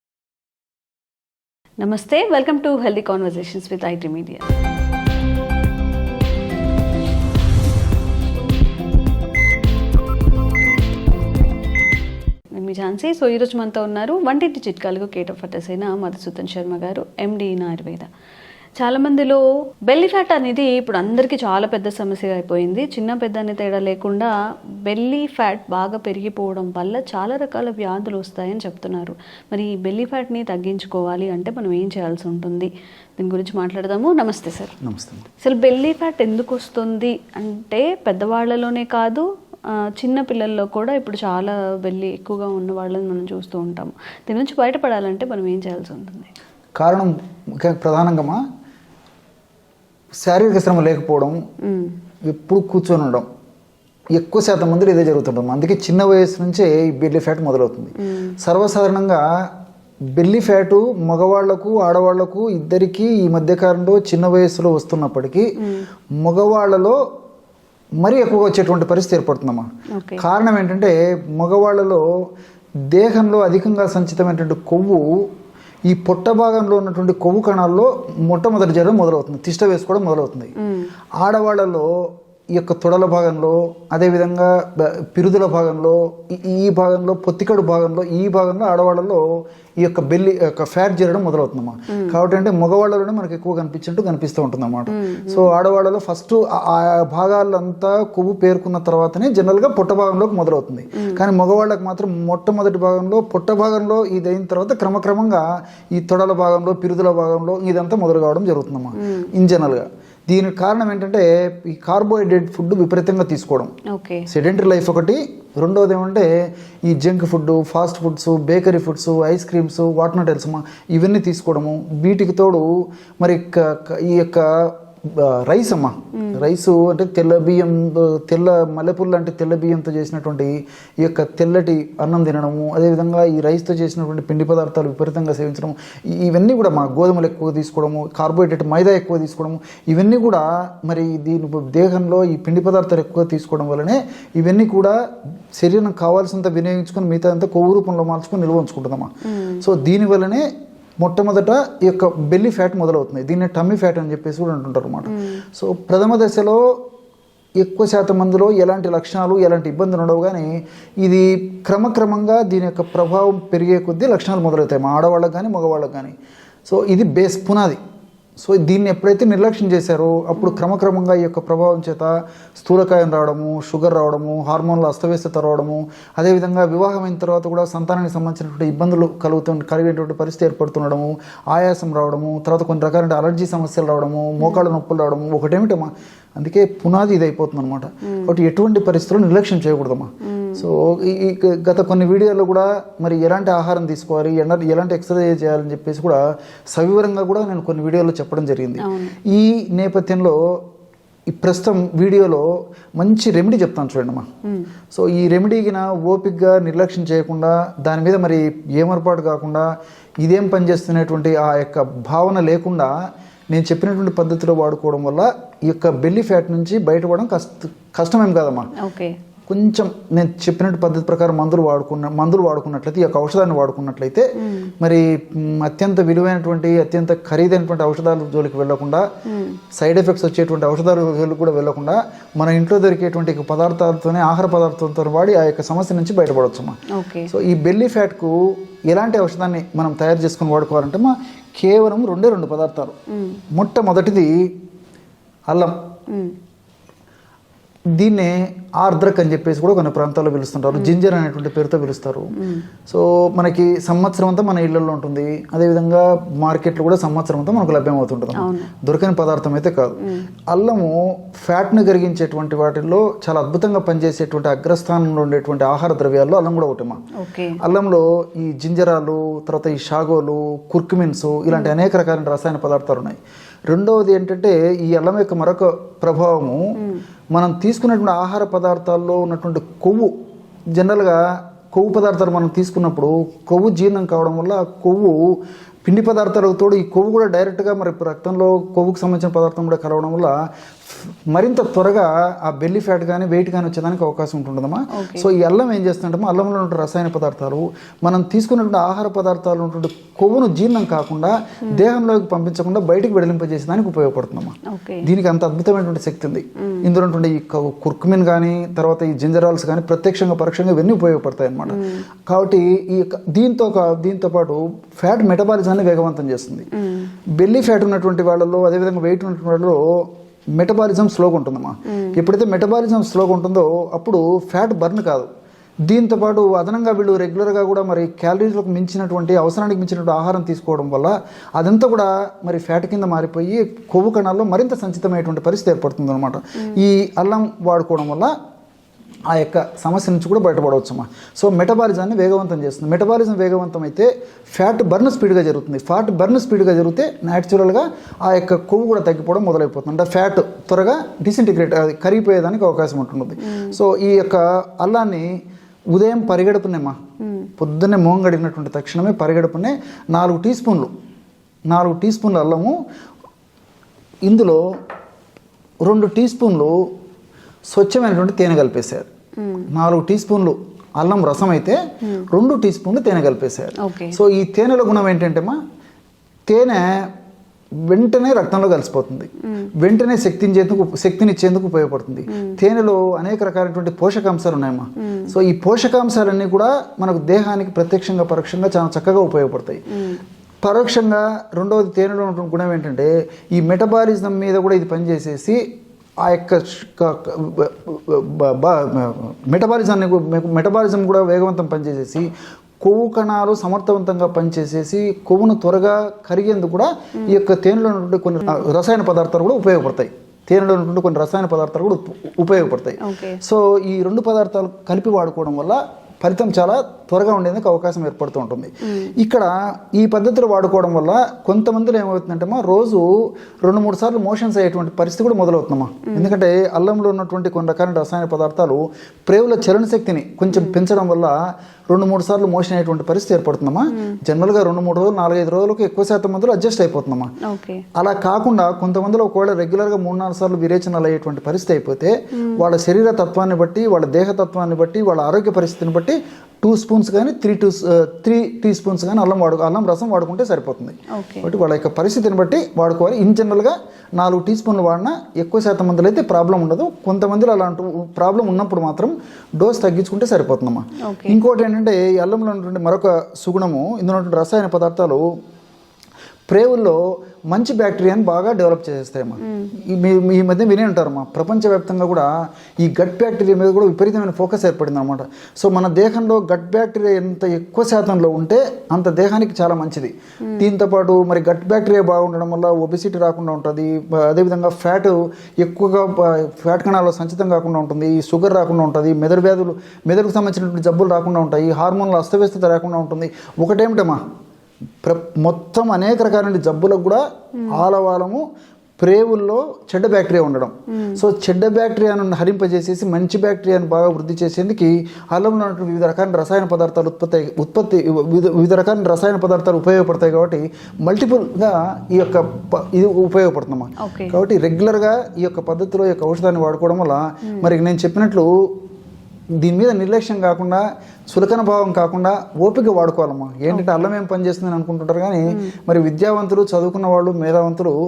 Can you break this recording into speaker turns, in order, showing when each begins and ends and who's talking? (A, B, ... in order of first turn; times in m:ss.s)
0:01.8-0:04.4 A
0:12.6-0:18.1 A
0:18.8-0:24.3 A
0:24.9-0:34.8 A
0:34.8-0:35.3 B
0:35.4-0:39.3 A
0:40.0-0:46.3 A
0:46.8-0:48.4 B
0:50.2-0:51.4 B
0:51.7-0:51.9 A
0:52.3-0:53.3 B
0:54.2-0:59.2 B
0:58.0-0:58.3 A
1:00.2-1:05.5 B
1:06.2-1:07.0 B
1:08.0-1:09.7 B
1:10.0-1:10.2 A
1:10.2-1:12.0 B
1:12.9-1:15.3 B
1:15.9-1:20.5 B
1:20.6-1:20.9 A
1:21.2-1:29.2 B
1:29.8-1:53.7 B
1:31.9-1:32.2 A
1:34.9-1:35.5 A
1:49.0-1:49.3 A
1:53.9-1:54.3 A
1:54.3-1:56.3 B
1:56.8-2:25.0 B
2:06.2-2:06.4 A
2:25.6-2:30.4 B
2:29.3-2:29.6 A
2:31.0-2:36.6 B
2:35.1-2:35.4 A
2:37.6-2:40.5 B
2:41.0-2:46.1 B
2:46.7-2:47.8 B
2:48.4-3:16.2 B
3:04.4-3:04.7 A
3:10.2-3:10.7 A
3:16.7-3:20.4 B
3:18.8-3:19.1 A
3:21.4-3:24.3 B
3:24.9-3:29.7 B
3:30.2-3:32.9 B
3:33.5-3:38.7 B
3:38.8-3:39.2 A
3:39.5-3:44.3 B
3:44.4-3:44.7 A
3:44.8-3:49.0 B
3:49.3-3:49.6 A
3:49.7-3:56.8 B
3:56.9-3:57.3 A
3:57.3-3:58.4 B
3:58.9-4:02.9 B
4:03.1-4:03.4 A
4:03.5-4:04.5 B
4:05.5-4:05.8 B
4:06.1-4:06.4 A
4:08.0-4:12.3 B
4:12.4-4:12.7 A
4:12.9-4:20.0 B
4:18.4-4:18.7 A
4:20.5-4:27.0 B
4:27.2-4:27.6 A
4:27.6-4:33.2 B
4:33.7-4:36.6 B
4:37.3-4:40.1 B
4:40.8-4:41.2 B
4:41.7-4:50.3 B
4:50.9-5:16.7 B
4:54.9-4:55.3 A
5:04.7-5:05.1 A
5:11.7-5:12.0 A
5:16.8-5:17.1 A
5:17.4-5:25.3 B
5:21.9-5:22.2 A
5:25.9-5:38.3 B
5:39.3-5:55.3 B
5:53.5-5:53.8 A
5:55.9-5:57.0 B
5:57.2-5:57.5 A
5:57.6-6:00.9 B
6:01.7-6:02.8 B
6:04.2-6:04.6 B
6:05.8-6:06.8 B
6:07.7-6:09.1 B
6:09.4-6:09.7 A
6:09.7-6:11.8 B
6:12.3-6:15.6 B
6:13.8-6:14.2 A
6:16.5-6:17.1 B
6:17.9-6:29.8 B
6:25.0-6:25.3 A
6:30.6-6:35.6 B
6:36.2-6:42.3 B
6:42.8-7:03.1 B
6:53.0-6:53.4 A
7:03.6-7:11.4 B
7:10.5-7:10.8 A
7:11.9-7:17.3 B
7:17.4-7:17.8 A
7:18.0-7:45.2 B
7:31.1-7:31.5 A
7:41.0-7:41.4 A
7:46.5-7:47.0 B
7:47.5-7:52.3 B
7:49.4-7:49.7 A
7:52.8-8:14.2 B
8:15.0-8:18.4 B
8:19.0-8:38.5 B
8:21.0-8:21.2 A
8:34.0-8:34.4 A
8:39.6-8:48.0 B
8:43.7-8:44.0 A